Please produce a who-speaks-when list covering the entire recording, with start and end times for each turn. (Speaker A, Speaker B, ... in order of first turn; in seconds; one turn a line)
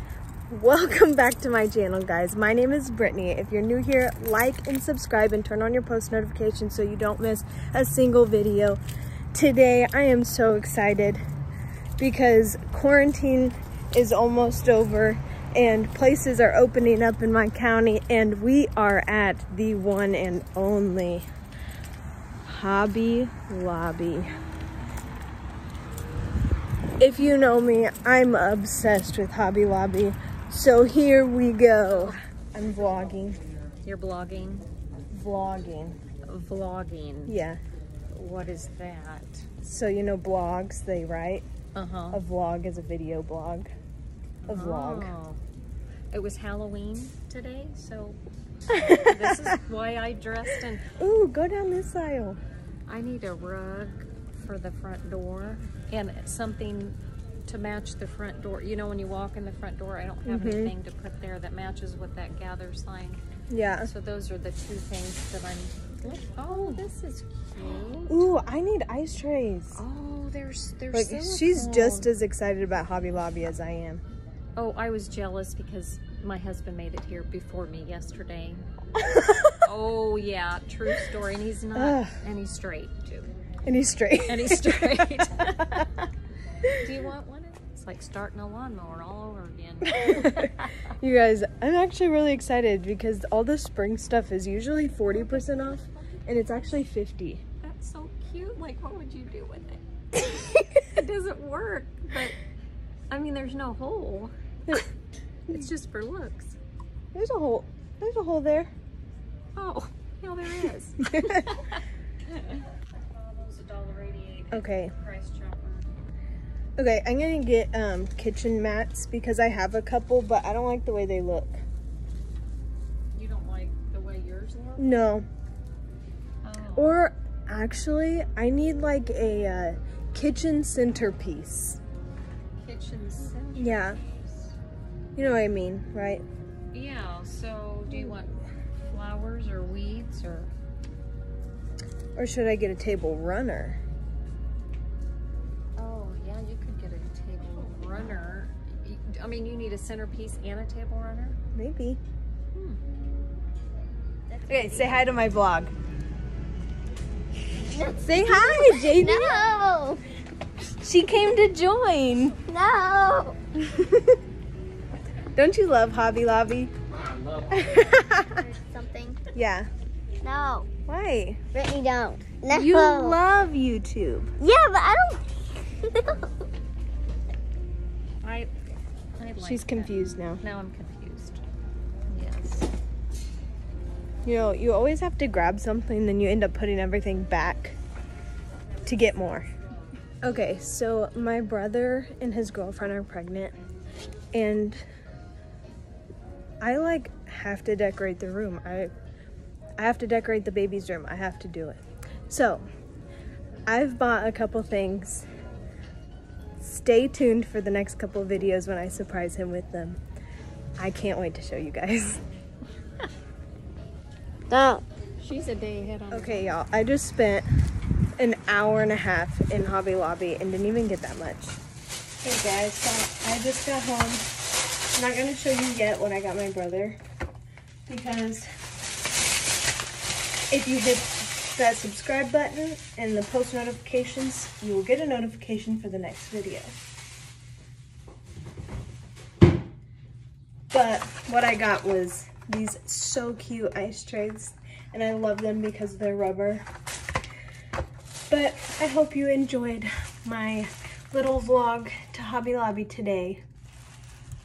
Speaker A: 0.5-8.8
Speaker A: 9.3-11.2
Speaker A: 12.0-21.3
Speaker A: 22.5-24.3
Speaker A: 27.0-33.4
Speaker B: 31.9-32.2
Speaker B: 33.8-34.7
Speaker A: 35.1-36.0
Speaker B: 36.2-37.4
Speaker A: 37.3-37.6
Speaker B: 38.1-39.5
Speaker A: 39.6-41.5
Speaker B: 41.7-42.2
Speaker A: 42.1-43.7
Speaker B: 44.5-45.4
Speaker A: 44.5-45.1
Speaker B: 46.1-48.2
Speaker A: 48.7-49.6
Speaker B: 48.8-50.9
Speaker A: 50.9-52.4
Speaker B: 52.9-63.2
Speaker A: 60.2-60.7
Speaker A: 63.5-63.9
Speaker B: 63.8-68.3
Speaker A: 66.5-66.9
Speaker A: 68.1-69.8
Speaker B: 69.8-72.1
Speaker A: 70.9-74.0
Speaker B: 74.6-78.7
Speaker A: 79.0-79.6
Speaker B: 79.6-83.3
Speaker A: 81.7-82.2
Speaker A: 83.7-86.1
Speaker B: 84.3-85.8
Speaker B: 86.8-90.9
Speaker A: 89.8-97.4
Speaker B: 97.6-102.4
Speaker B: 103.1-104.8
Speaker B: 105.5-106.6
Speaker A: 107.1-108.7
Speaker B: 109.5-115.9
Speaker A: 110.7-111.6
Speaker A: 114.5-114.9
Speaker A: 116.8-121.6
Speaker B: 123.1-125.0
Speaker A: 124.8-125.3
Speaker B: 126.4-127.0
Speaker A: 126.8-131.8
Speaker B: 132.6-134.5
Speaker A: 133.6-134.0
Speaker A: 135.2-136.2
Speaker B: 136.7-140.5
Speaker A: 137.9-138.2
Speaker A: 142.2-143.8
Speaker B: 145.8-151.4
Speaker A: 151.5-152.0
Speaker B: 152.5-152.8
Speaker C: 154.3-155.1
Speaker A: 154.5-155.7
Speaker C: 157.7-160.0
Speaker A: 158.0-159.5
Speaker A: 160.8-162.4
Speaker C: 162.5-163.4
Speaker A: 163.6-164.2
Speaker A: 165.3-166.7
Speaker A: 167.5-168.4
Speaker C: 168.3-169.2
Speaker A: 169.3-169.7
Speaker C: 170.2-170.7
Speaker A: 170.9-171.4
Speaker C: 171.5-173.2
Speaker A: 172.5-174.3
Speaker C: 174.4-176.2
Speaker B: 178.2-178.5
Speaker B: 179.2-181.4
Speaker A: 179.4-180.4
Speaker B: 182.1-182.7
Speaker A: 184.2-187.8
Speaker A: 188.8-189.5
Speaker A: 190.2-193.6
Speaker A: 194.3-194.8
Speaker A: 196.6-198.9
Speaker A: 199.8-202.7
Speaker A: 203.7-205.3
Speaker A: 206.6-210.0
Speaker A: 210.8-212.2
Speaker C: 214.5-214.8
Speaker B: 215.2-216.5
Speaker A: 216.1-217.5
Speaker A: 218.2-221.6
Speaker A: 222.2-224.2
Speaker A: 224.9-227.0
Speaker A: 227.9-228.5
Speaker A: 230.5-236.7
Speaker A: 240.7-246.7
Speaker A: 248.3-253.4